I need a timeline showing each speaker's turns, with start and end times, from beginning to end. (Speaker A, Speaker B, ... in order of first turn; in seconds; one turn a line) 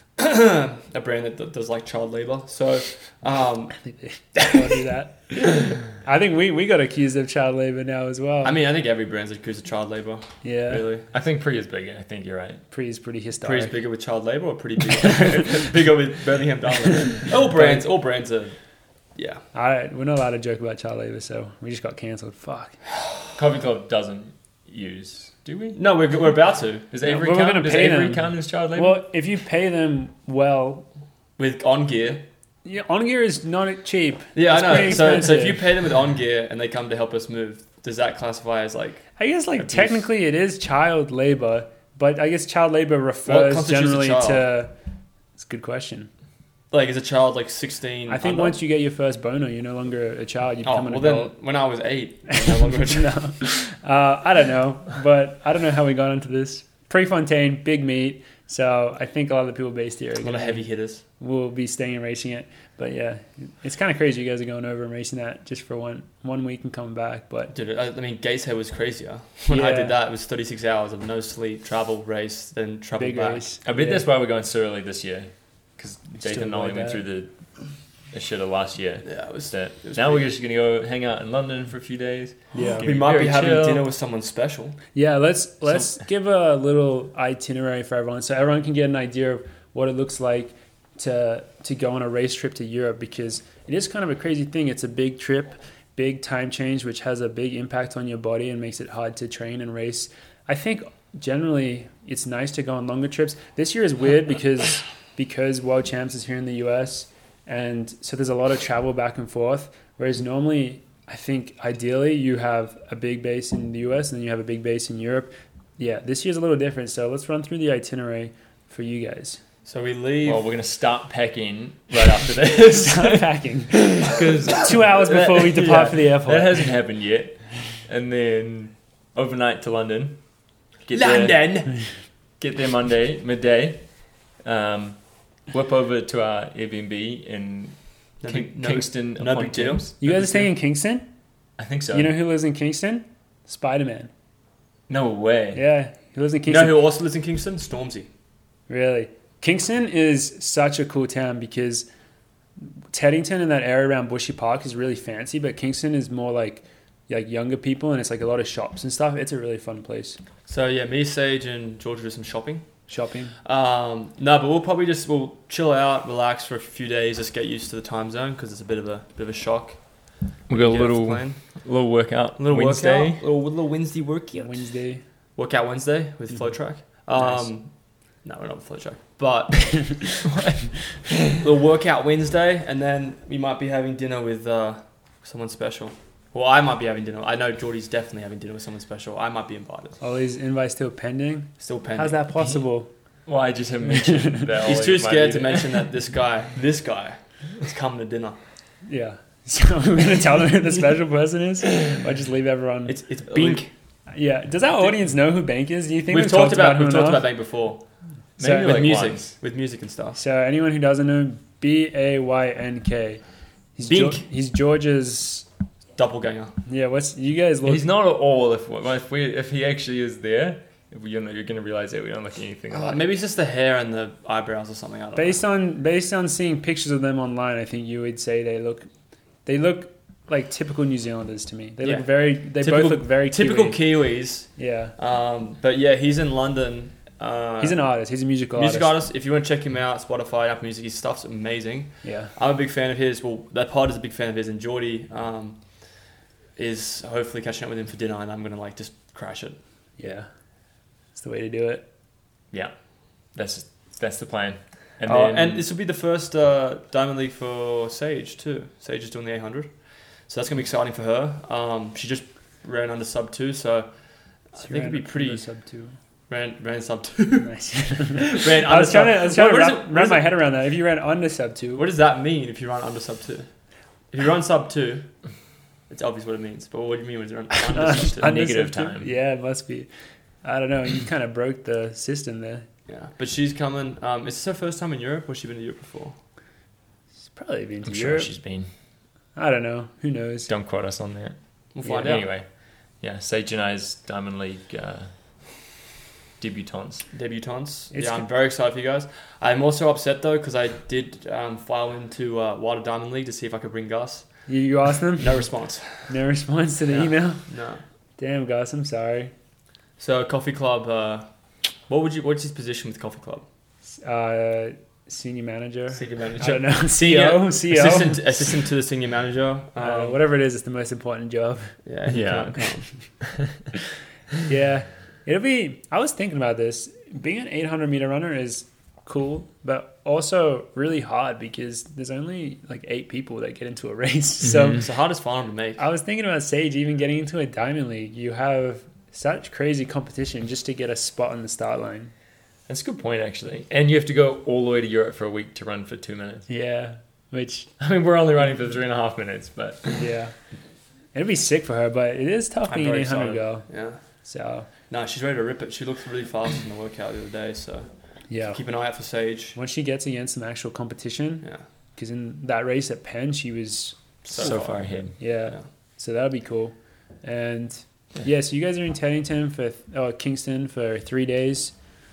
Speaker A: 0.2-3.8
Speaker B: 3.9-8.6
Speaker A: 8.4-11.1
Speaker B: 10.4-10.9
Speaker C: 11.1-12.6
Speaker B: 12.7-13.8
Speaker A: 13.4-18.6
Speaker B: 15.1-15.4
Speaker B: 17.5-17.9
Speaker A: 19.2-19.4
Speaker B: 19.5-22.8
Speaker C: 23.4-25.8
Speaker A: 25.8-26.9
Speaker C: 26.9-29.0
Speaker B: 27.0-30.9
Speaker A: 31.4-32.2
Speaker B: 32.6-35.6
Speaker A: 34.4-40.1
Speaker B: 39.2-44.7
Speaker A: 43.3-44.5
Speaker B: 45.4-46.1
Speaker A: 46.7-48.6
Speaker B: 48.1-51.3
Speaker A: 50.6-53.5
Speaker B: 52.3-60.6
Speaker A: 60.2-61.0
Speaker B: 61.2-67.5
Speaker A: 67.5-73.5
Speaker B: 69.5-70.0
Speaker B: 73.0-74.0
Speaker C: 73.7-77.3
Speaker B: 76.2-77.0
Speaker C: 78.1-83.9
Speaker A: 79.0-80.3
Speaker B: 82.5-82.9
Speaker A: 82.8-84.8
Speaker B: 84.9-119.4
Speaker A: 119.7-120.5
Speaker C: 120.2-130.2
Speaker B: 122.7-126.7
Speaker C: 130.8-131.7
Speaker A: 130.9-131.7
Speaker C: 132.4-140.5
Speaker A: 138.2-139.9
Speaker B: 140.0-141.1
Speaker C: 141.6-142.1
Speaker B: 141.9-144.1
Speaker C: 144.9-145.6
Speaker B: 145.5-146.8
Speaker A: 146.5-148.1
Speaker B: 148.7-151.9
Speaker B: 152.6-160.2
Speaker A: 160.5-162.8
Speaker B: 162.9-163.3
Speaker A: 163.4-171.6
Speaker C: 170.5-173.2
Speaker A: 172.4-174.6
Speaker B: 174.3-175.0
Speaker A: 175.4-177.7
Speaker B: 177.0-177.5
Speaker A: 178.2-180.1
Speaker C: 180.2-180.7
Speaker A: 181.3-190.0
Speaker B: 190.0-192.9
Speaker A: 191.6-192.2
Speaker C: 193.3-195.9
Speaker B: 193.9-194.5
Speaker A: 194.6-198.4
Speaker B: 198.9-207.3
Speaker A: 202.9-203.7
Speaker A: 206.1-207.8
Speaker C: 208.4-209.3
Speaker B: 208.4-208.8
Speaker A: 208.5-210.2
Speaker B: 210.2-213.2
Speaker B: 213.8-215.5
Speaker A: 213.8-214.2
Speaker A: 216.0-216.5
Speaker B: 216.7-217.8
Speaker C: 217.6-223.0
Speaker A: 222.7-225.4
Speaker B: 225.2-228.9
Speaker B: 229.5-233.8
Speaker A: 231.8-237.8
Speaker B: 234.6-234.9
Speaker B: 237.6-238.9
Speaker A: 238.6-245.9
Speaker B: 242.0-242.3
Speaker A: 246.6-249.6
Speaker B: 250.0-250.3
Speaker B: 251.2-251.8
Speaker C: 253.3-255.6
Speaker A: 255.1-259.7
Speaker A: 260.3-263.9
Speaker A: 264.5-265.4
Speaker B: 264.6-265.9
Speaker A: 266.3-270.3
Speaker B: 267.4-271.9
Speaker A: 271.8-273.5
Speaker A: 274.1-275.1
Speaker A: 275.9-278.4
Speaker B: 277.7-279.9
Speaker C: 278.1-279.1
Speaker B: 280.4-282.7
Speaker A: 282.9-286.2
Speaker B: 287.3-288.3
Speaker C: 287.9-288.7
Speaker B: 289.4-290.5
Speaker C: 290.5-292.5
Speaker A: 291.8-292.3
Speaker C: 293.0-295.1
Speaker C: 296.4-297.1
Speaker A: 297.1-304.5
Speaker B: 297.9-298.3
Speaker B: 304.5-305.4
Speaker A: 305.2-306.1
Speaker B: 306.1-307.4
Speaker A: 306.9-307.8
Speaker B: 308.2-309.3
Speaker A: 310.0-311.3
Speaker A: 311.9-313.4
Speaker B: 314.0-318.2
Speaker A: 315.9-320.2
Speaker B: 319.8-321.8
Speaker A: 321.9-322.9
Speaker C: 322.1-322.7
Speaker C: 323.2-323.6
Speaker B: 324.5-334.8
Speaker C: 334.4-334.8
Speaker A: 334.7-335.8
Speaker B: 335.8-342.1
Speaker C: 342.7-346.5
Speaker B: 346.5-347.7
Speaker C: 347.8-350.0
Speaker B: 350.0-350.3
Speaker B: 351.1-353.7
Speaker A: 352.7-354.0
Speaker B: 354.2-354.7
Speaker A: 354.9-357.9
Speaker B: 358.3-358.6
Speaker A: 358.5-359.6
Speaker B: 359.6-364.5
Speaker A: 364.2-365.6
Speaker C: 364.3-365.2
Speaker B: 365.2-371.7